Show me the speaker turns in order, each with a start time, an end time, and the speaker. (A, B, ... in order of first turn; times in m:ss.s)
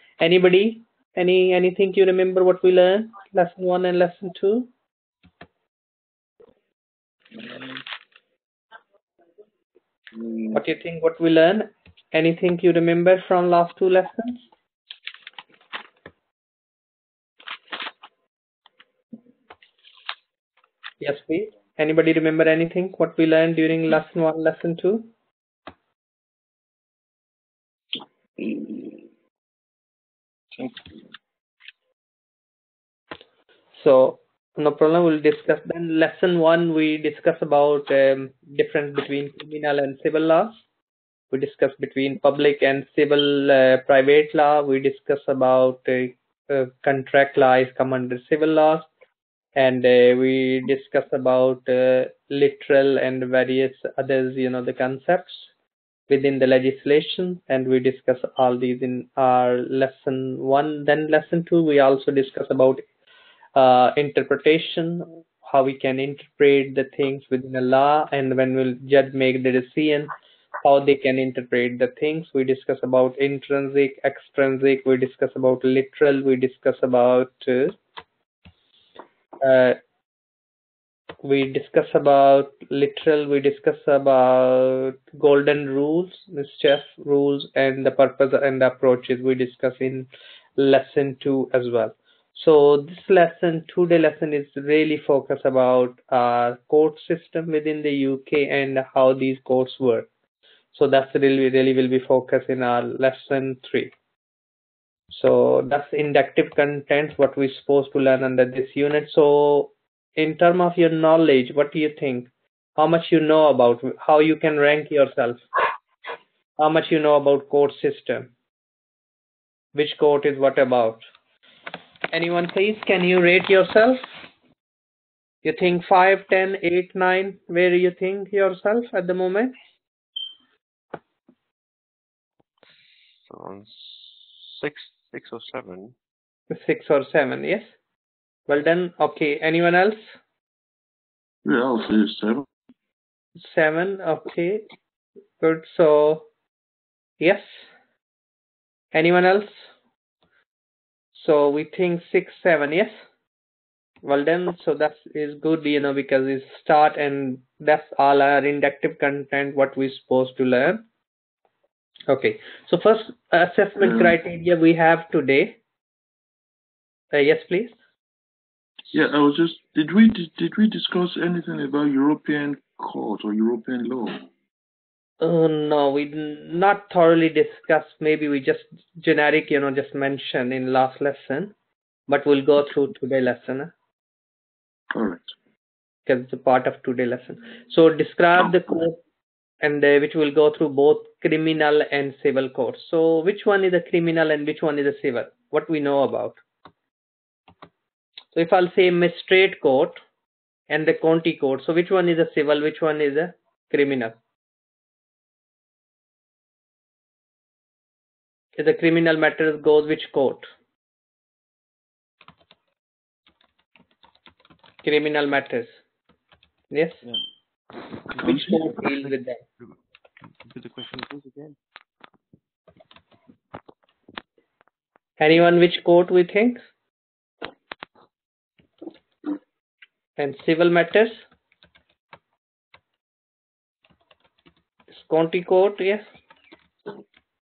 0:00.2-0:04.7 A
0:10.5-0:14.4 A
0:21.0-0:25.1 A
0:28.4-0:28.8 B
0:30.5-0:30.9 B
0:33.7-0:40.6 A
0:41.3-0:48.9 A
0:49.6-0:55.5 A
0:56.1-1:02.9 A
1:03.6-1:17.8 A
1:19.4-1:19.8 A
1:21.2-1:40.1 A
1:40.7-1:43.9 A
1:45.1-1:55.4 A
1:56.6-1:58.3 A
1:59.8-2:01.0 A
2:02.1-2:04.1 A
2:05.4-2:09.6 A
2:12.7-2:16.0 C
2:16.5-2:17.7 A
2:18.5-2:20.2 A
2:21.4-2:22.5 B
2:23.4-2:24.6 A
2:25.4-2:26.3 A
2:27.2-2:27.7 A
2:28.9-2:29.7 A
2:31.1-2:33.0 A
2:34.0-2:40.8 A
2:42.1-2:45.6 A
2:43.8-2:44.2 B
2:47.1-2:47.8 A
2:48.9-2:54.2 B
2:55.2-3:01.5 A
3:02.1-3:03.7 A
3:04.9-3:05.3 B
3:06.1-3:09.0 A
3:08.4-3:08.8 B
3:09.6-3:16.4 A
3:18.3-3:20.0 A
3:20.7-3:24.2 A
3:28.6-3:30.5 A
3:34.8-3:35.8 A
3:36.7-3:37.0 A
3:38.1-3:39.8 C
3:38.2-3:38.6 B
3:38.2-3:39.4 A
3:40.4-3:41.6 C
3:45.2-3:46.6 A
3:50.2-3:51.2 A
3:54.9-3:56.0 A